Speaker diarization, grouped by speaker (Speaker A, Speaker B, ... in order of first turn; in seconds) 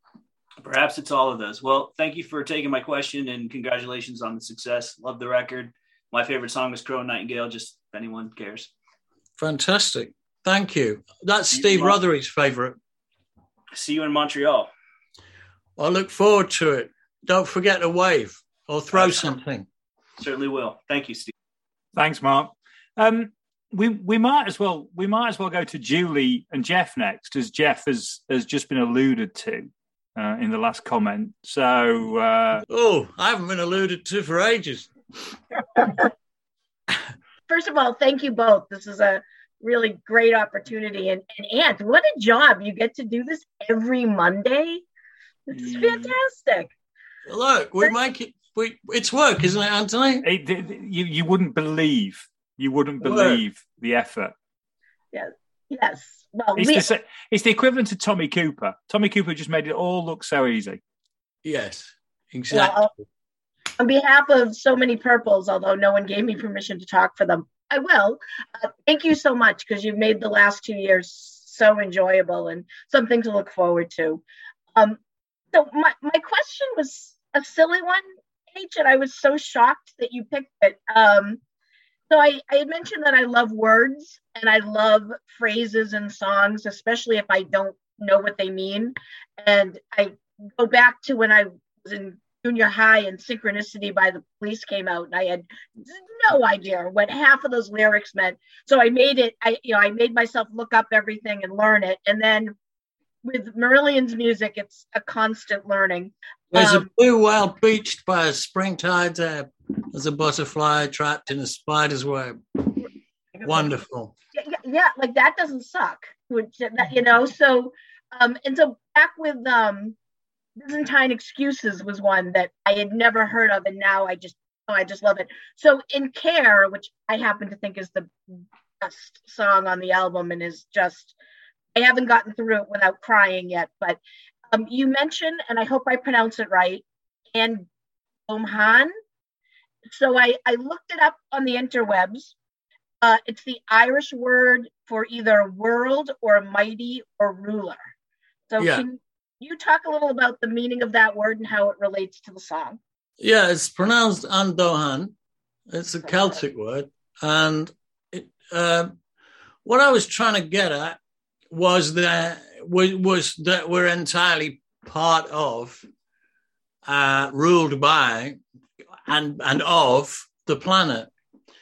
Speaker A: 0.6-8.7, 11.5-11.9, 13.7-14.7, 18.9-19.3, 20.2-21.3
Speaker B: 9.4-12.8, 15.8-19.6, 32.7-34.9, 47.3-50.2, 53.0-53.4, 61.4-62.9, 106.5-112.8, 113.4-114.1, 148.6-148.8, 153.2-155.1, 155.7-158.9, 159.7-161.0, 161.5-165.8, 166.9-168.4, 169.1-171.1
Speaker C: 21.9-32.6, 45.5-46.2, 50.2-54.3, 56.5-60.8
Speaker D: 37.5-44.8, 45.5-46.7, 55.1-56.8, 62.5-62.9, 63.8-74.2, 75.5-81.4, 82.1-102.5, 103.2-106.9, 113.3-113.7, 114.3-120.0, 120.6-128.1, 128.8-131.1, 131.7-134.0, 134.5-137.7, 138.3-138.9, 139.9-142.3, 143.0-147.9, 148.5-152.8